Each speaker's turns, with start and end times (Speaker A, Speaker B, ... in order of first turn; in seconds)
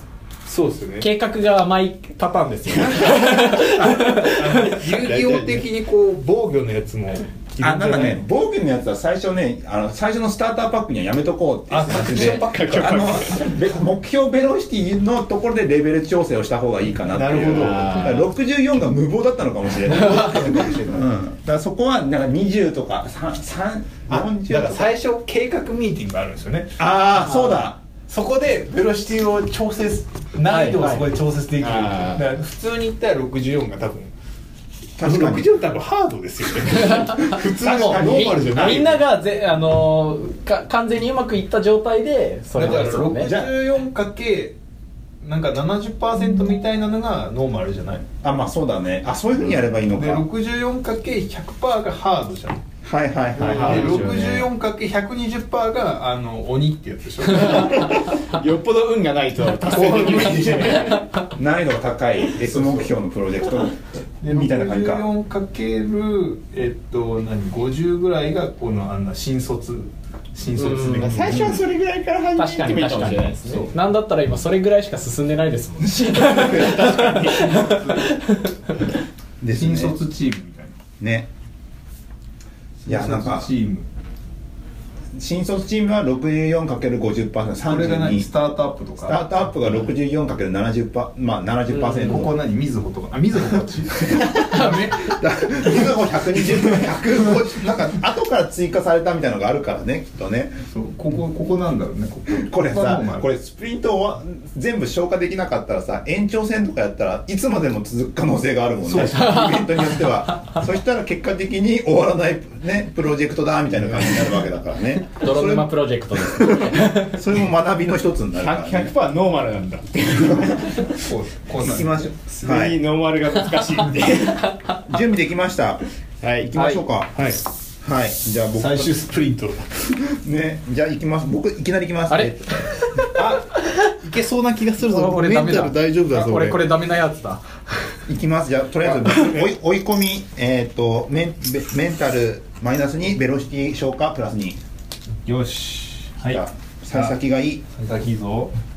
Speaker A: 0.5-1.1, 2.8-8.2, 11.7-12.6, 17.1-18.1, 19.8-21.0, 24.1-26.8, 28.1-34.1, 35.0-39.0, 42.5-44.6, 45.2-48.1, 49.9-52.6, 53.4-58.0, 59.6-60.9, 62.4-62.9, 64.2-71.5, 76.7-78.2, 79.5-80.8, 82.8-83.9, 87.7-89.2, 92.0-94.9, 96.5-96.9, 100.7-103.3, 108.9-109.4, 120.8-122.1, 127.1-127.4, 128.6-129.8, 133.0-136.6, 145.3-147.2, 147.8-148.5
Speaker B: 1.0-4.8, 27.2-27.6, 30.5-31.1, 36.8-43.3, 70.5-71.4, 72.4-78.5, 91.8-92.1, 94.5-95.0, 109.0-110.1, 115.2-117.2, 126.6-126.8, 132.1-133.1, 134.8-137.9
Speaker C: 3.6-4.1, 7.6-24.9, 26.8-27.8, 35.0-35.5, 37.6-38.9, 43.2-43.5, 48.2-50.2, 52.8-54.2, 61.3-65.1, 71.2-71.5, 75.9-77.0, 79.4-80.0, 81.0-81.3, 82.9-83.5, 85.1-88.3, 89.0-92.3, 94.1-100.6, 102.3-118.9, 120.3-120.7, 121.6-122.8, 124.9-125.8, 126.4-127.3, 127.8-128.9, 129.9-132.7, 138.1-144.6, 146.2-147.6
Speaker D: 4.8-5.7, 11.9-13.4, 17.5-18.3, 31.6-32.2, 53.4-54.5, 57.5-61.0, 71.0-73.7, 76.4-77.6, 118.4-120.9, 122.3-124.5, 126.2-126.5